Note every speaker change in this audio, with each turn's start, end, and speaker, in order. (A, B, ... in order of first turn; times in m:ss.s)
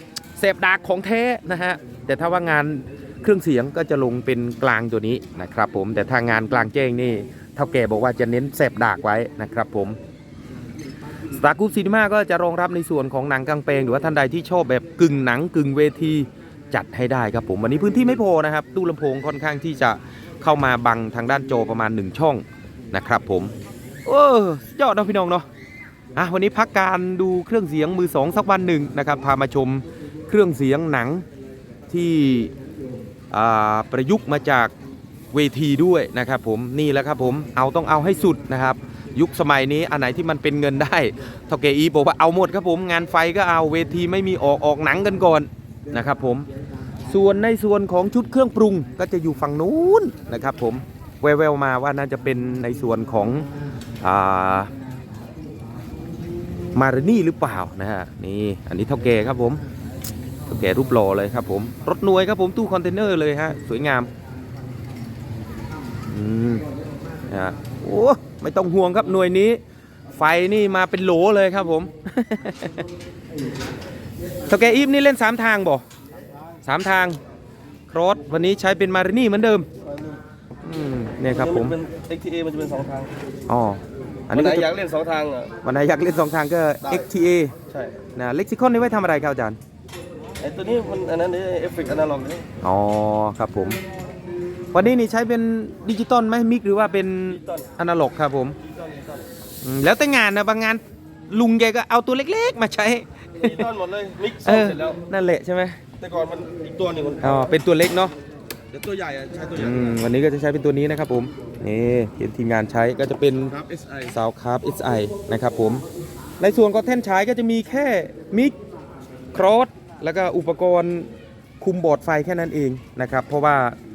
0:00.4-0:10.0 A
0:11.3-0:23.5 A
0:24.0-0:25.4 A
0:26.2-0:31.2 A
0:31.9-0:32.5 A
0:33.3-0:34.7 A
0:35.3-0:46.5 A
0:47.1-0:53.5 A
0:54.0-0:54.7 A
0:56.7-0:59.6 A
1:00.5-1:04.1 A
1:06.1-1:06.6 A
1:07.3-1:09.6 A
1:10.1-1:12.9 A
1:14.5-1:15.8 A
1:16.6-1:17.2 A
1:17.9-1:19.7 A
1:19.8-1:20.2 B
1:20.6-1:21.8 A
1:21.3-1:23.1 B
1:23.5-1:24.7 A
1:24.3-1:25.5 B
1:25.6-1:27.5 A
1:26.8-1:27.1 B
1:27.7-1:28.0 B
1:28.2-1:29.6 A
1:30.4-1:32.5 B
1:32.6-1:33.8 A
1:34.7-1:38.6 A
1:37.3-1:37.7 B
1:38.6-1:39.3 B
1:39.6-1:43.7 A
1:43.4-1:45.0 B
1:44.4-1:45.8 A
1:46.0-1:47.5 B
1:47.2-1:48.1 A
1:48.7-1:50.0 B
1:49.6-1:53.6 A
1:53.5-1:54.1 B
1:54.1-1:55.8 A
1:56.4-1:58.6 A
1:59.3-2:01.1 A
2:01.6-2:03.8 A